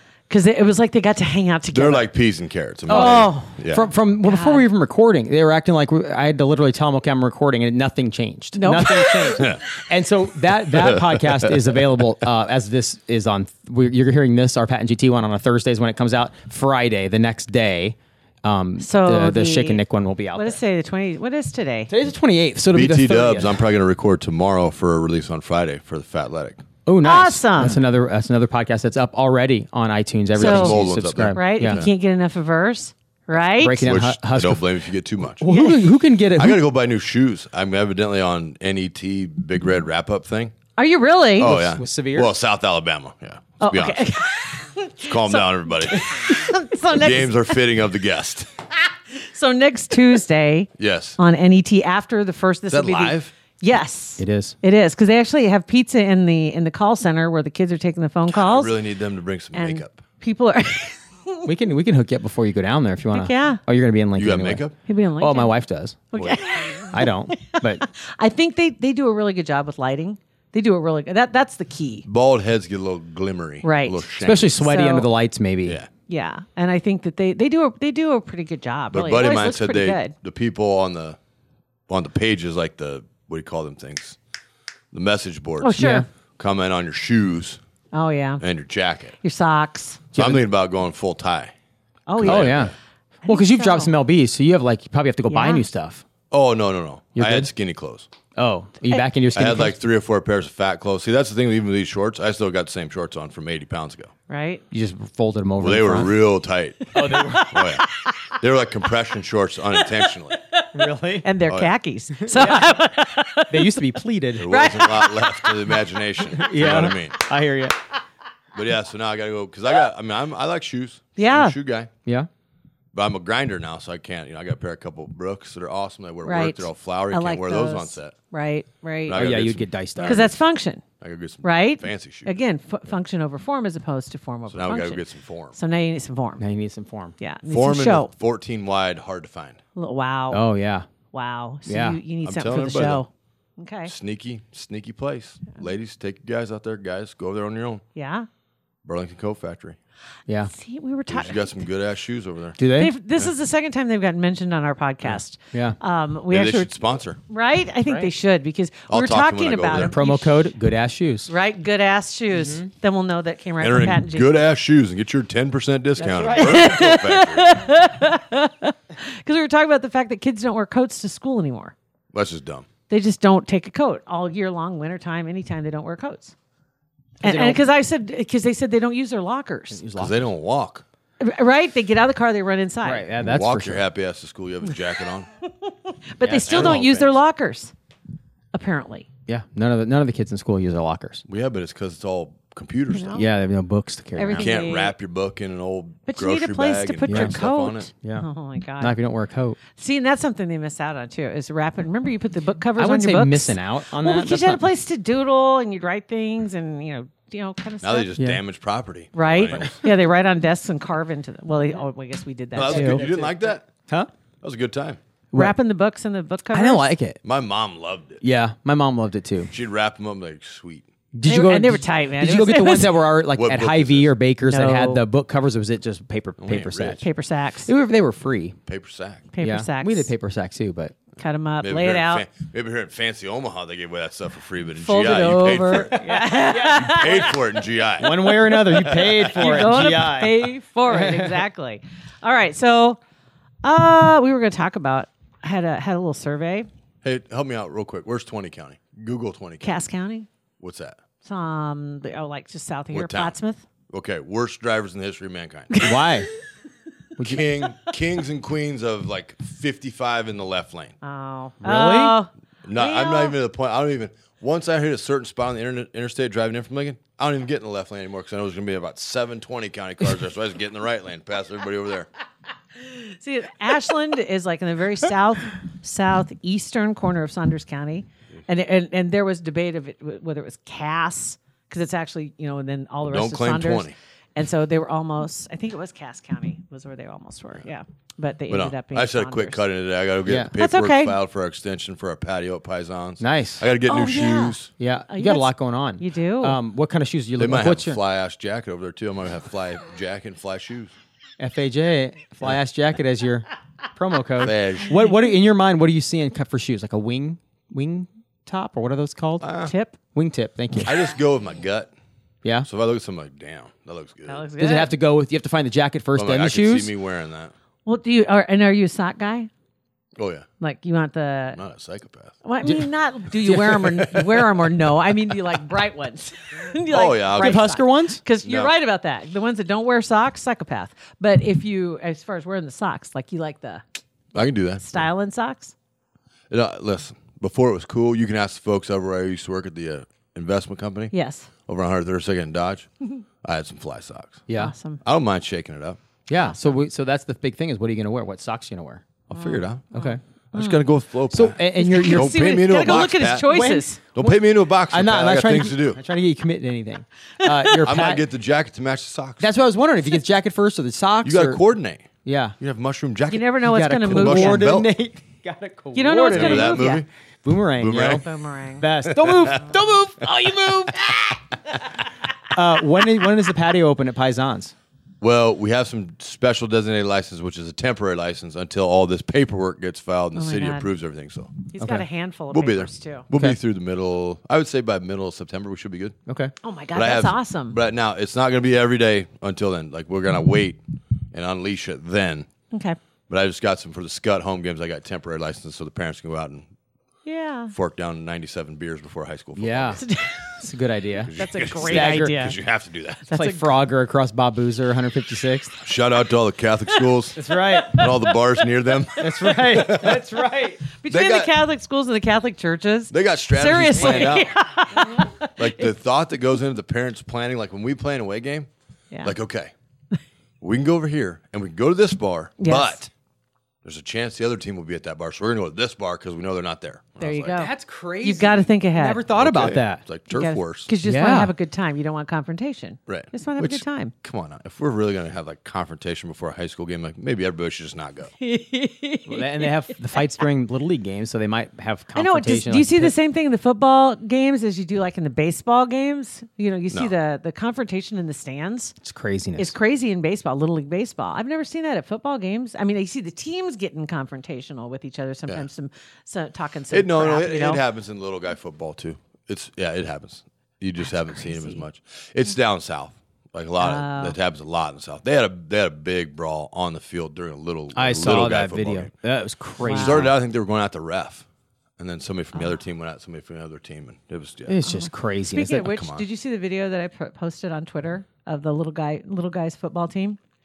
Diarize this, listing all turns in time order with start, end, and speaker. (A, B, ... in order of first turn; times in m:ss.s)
0:00.3-0:02.1 A
0:01.7-0:03.9 B
0:02.9-0:20.6 C
0:02.9-0:03.6 A
0:04.2-0:04.7 A
0:08.6-0:09.4 A
0:09.4-0:09.7 B
0:11.0-0:11.5 B
0:18.8-0:19.8 A
0:20.3-0:21.9 A
0:21.9-0:23.6 C
0:22.7-0:26.7 B
0:26.9-0:31.8 C
0:27.0-0:27.8 A
0:30.4-0:31.9 B
0:30.4-0:30.8 A
0:31.3-0:33.8 A
0:33.6-0:34.7 C
0:33.8-0:35.5 B
0:35.4-0:36.6 C
0:35.5-0:35.8 A
0:36.3-0:40.6 B
0:40.8-0:41.5 A
0:41.4-0:44.1 B
0:41.4-0:42.3 C
0:43.6-0:47.6 A
0:45.1-0:46.4 B
0:46.9-0:48.5 B
0:49.1-0:58.7 A
0:50.8-0:51.2 B
0:52.7-0:53.3 B
0:54.2-0:54.6 C
0:58.3-1:00.0 B
0:59.5-1:01.5 A
1:01.5-1:04.6 C
1:03.1-1:03.6 A
1:04.2-1:04.8 B
1:04.8-1:05.6 A
1:05.2-1:06.0 C
1:06.1-1:12.1 A
1:06.2-1:06.6 B
1:06.9-1:07.8 C
1:12.1-1:14.6 B
1:13.6-1:15.1 A
1:14.2-1:15.8 C
1:16.1-1:20.1 A
1:18.9-1:21.2 B
1:21.9-1:24.2 B
1:24.9-1:27.6 B
1:25.6-1:26.1 A
1:25.8-1:26.1 C
1:27.9-1:28.4 A
1:28.4-1:29.2 B
1:29.2-1:30.0 A
1:30.1-1:30.4 C
1:30.2-1:31.5 B
1:32.1-1:32.7 A
1:32.2-1:32.7 B
1:32.2-1:32.7 C
1:33.2-1:33.9 A
1:33.3-1:36.0 C
1:35.3-1:35.6 A
1:36.3-1:38.1 B
1:37.2-1:37.5 C
1:38.4-1:39.8 C
1:39.3-1:44.1 B
1:44.3-1:44.6 A
1:44.7-1:46.1 C
1:45.6-1:50.4 B
1:47.0-1:47.6 C
1:47.0-1:48.3 A
1:49.8-1:50.7 A
1:50.7-1:51.3 C
1:51.2-1:53.8 A
1:52.2-1:52.7 C
1:53.5-1:54.5 C
1:54.4-1:57.2 B
1:54.5-1:55.7 A
1:56.3-1:57.8 C
1:58.5-2:01.9 B
2:01.2-2:01.6 A
2:02.9-2:08.2 B
2:06.2-2:09.2 A
2:09.1-2:10.4 B
2:09.1-2:10.3 C
2:10.0-2:10.8 A
2:11.0-2:12.3 B
2:11.4-2:15.0 A
2:14.5-2:15.6 B
2:15.6-2:16.4 A
2:16.4-2:17.2 C
2:17.2-2:18.1 A
2:17.5-2:19.6 B
2:19.8-2:20.4 A
2:20.3-2:20.9 C
2:21.1-2:23.9 A
2:21.7-2:22.0 C
2:22.2-2:23.0 B
2:23.9-2:27.8 B
2:28.0-2:28.3 A
2:28.8-2:29.8 B
2:30.5-2:31.6 A
2:31.1-2:32.6 B
2:32.6-2:32.9 C
2:32.7-2:36.7 A
2:36.3-2:37.2 B
2:37.3-2:40.4 A
2:38.9-2:39.9 B
2:39.7-2:41.3 C
2:41.3-2:44.3 A
2:42.4-2:42.7 C
2:43.6-2:47.6 B
2:46.0-2:51.7 A
2:46.0-2:46.8 C
2:52.1-2:52.7 B
2:52.9-2:56.3 A
2:57.2-2:59.8 A
2:57.2-2:57.6 C
2:59.7-3:00.2 C
3:00.0-3:00.8 B
3:01.2-3:03.1 A
3:02.8-3:03.8 C
3:03.2-3:05.3 B
3:05.7-3:07.7 A
3:06.2-3:06.8 C
3:06.5-3:07.1 B
3:08.5-3:09.1 A
3:09.3-3:11.2 C
3:11.3-3:13.2 B
3:12.9-3:13.2 A
3:13.1-3:14.5 C
3:14.2-3:14.9 A
3:14.4-3:17.9 B
3:16.1-3:19.0 A
3:17.1-3:17.4 C
3:18.8-3:19.6 C
3:19.8-3:28.1 A
3:22.8-3:24.7 C
3:27.8-3:29.8 B
3:29.1-3:33.0 A
3:32.6-3:33.7 B
3:32.6-3:34.1 C
3:34.4-3:35.0 B
3:35.3-3:36.9 A
3:36.5-3:37.2 C
3:37.2-3:38.2 B
3:38.2-3:39.5 C
3:39.5-3:40.9 B
3:41.1-3:47.0 C
3:41.3-3:43.0 A
3:43.3-3:44.1 B
3:44.4-3:45.0 A
3:46.4-3:47.0 B
3:47.0-3:47.7 A
3:47.7-3:48.6 C
3:48.7-3:49.3 B
3:49.3-3:50.1 A
3:49.4-3:51.0 C
3:51.2-3:52.3 A
3:51.6-3:59.7 B
3:54.8-3:57.4 A
3:55.9-3:57.3 C
3:58.0-4:01.4 C
3:59.0-4:03.0 A
4:03.6-4:06.7 A
4:07.0-4:09.7 B
4:09.6-4:10.3 A
4:10.6-4:11.0 B
4:11.2-4:13.6 A
4:12.9-4:13.4 B
4:13.9-4:15.8 B
4:15.8-4:16.3 C
4:17.2-4:17.4 C
4:17.2-4:21.0 B
4:21.0-4:23.4 A
4:21.6-4:22.2 C
4:22.7-4:32.1 B
4:32.8-4:49.6 A
4:43.1-4:44.0 B
4:48.5-4:54.7 B
4:50.3-4:50.5 C
4:50.5-4:51.2 A
4:53.2-4:53.6 C
4:53.9-4:54.6 A
4:54.8-4:58.0 C
4:55.1-4:56.6 A
4:57.4-5:00.9 B
5:01.4-5:09.5 C
5:04.4-5:05.0 B
5:09.4-5:09.7 B
5:09.6-5:10.0 A
5:10.1-5:10.9 C
5:10.8-5:11.9 B
5:12.6-5:14.5 B
5:14.3-5:14.9 A
5:14.6-5:16.9 C
5:16.2-5:17.5 B
5:17.9-5:19.5 A
5:20.2-5:20.5 B
5:20.6-5:21.6 A
5:21.5-5:22.4 B
5:22.4-5:33.8 A
5:23.4-5:23.8 C
5:26.9-5:27.7 B
5:27.3-5:28.2 C
5:28.4-5:28.7 B
5:34.3-5:35.0 B
5:34.8-5:35.7 A
5:36.5-5:41.1 B
5:41.1-5:41.5 A
5:41.7-5:42.9 B
5:43.4-5:44.5 B
5:44.5-5:44.7 C
5:44.6-5:45.0 A
5:45.0-5:46.0 B
5:46.3-5:49.1 C
5:49.3-5:49.9 B
5:49.3-5:50.8 A
5:49.9-5:50.2 C
5:50.5-5:53.5 B
5:51.3-5:52.4 C
5:51.8-5:54.0 A
5:53.4-5:54.4 C
5:54.1-5:56.0 B
5:54.9-5:58.3 C
5:57.4-5:57.8 A
5:57.8-5:59.5 B
5:59.4-6:01.6 C
6:01.2-6:04.9 B
6:02.2-6:02.6 C
6:03.3-6:04.7 A
6:03.6-6:08.2 C
6:05.9-6:07.0 A
6:06.3-6:07.1 B
6:07.8-6:08.3 B
6:08.1-6:08.9 A
6:08.8-6:11.4 C
6:09.2-6:09.6 B
6:12.5-6:14.7 C
6:15.2-6:21.7 B
6:20.4-6:20.9 A
6:21.7-6:23.3 A
6:22.5-6:26.2 B
6:26.3-6:26.5 C
6:26.6-6:27.8 A
6:27.0-6:30.8 B
6:31.3-6:32.5 B
6:32.7-6:33.0 A
6:33.3-6:36.7 B
6:37.3-6:37.7 A
6:37.7-6:40.0 B
6:39.6-6:40.0 C
6:40.0-6:40.6 A
6:40.6-6:42.5 C
6:41.3-6:43.3 B
6:41.4-6:42.6 A
6:43.3-6:43.6 A
6:43.3-6:45.8 C
6:45.8-6:50.2 B
6:47.4-6:48.0 C
6:47.7-6:48.1 A
6:49.2-6:50.8 C
6:51.0-6:55.9 A
6:51.1-6:51.5 B
6:53.1-6:58.7 B
6:54.0-6:54.3 C
6:59.2-6:59.7 B
7:00.6-7:03.1 B
7:02.6-7:03.1 A
7:03.8-7:07.6 B
7:07.2-7:09.2 A
7:07.6-7:10.0 C
7:09.4-7:10.9 B
7:10.3-7:14.1 A
7:11.0-7:11.5 C
7:13.1-7:18.3 B
7:18.4-7:19.9 A
7:19.3-7:23.2 C
7:22.2-7:29.0 A
7:29.0-7:29.7 C
7:29.6-7:37.8 A
7:36.9-7:49.1 B
7:41.1-7:41.8 A
7:43.8-7:44.4 A
7:48.0-7:50.3 C
7:49.8-7:50.3 A
7:49.9-7:51.5 B
7:52.0-7:54.8 B
7:54.7-7:55.9 C
7:54.9-8:00.4 A
7:55.8-7:56.2 B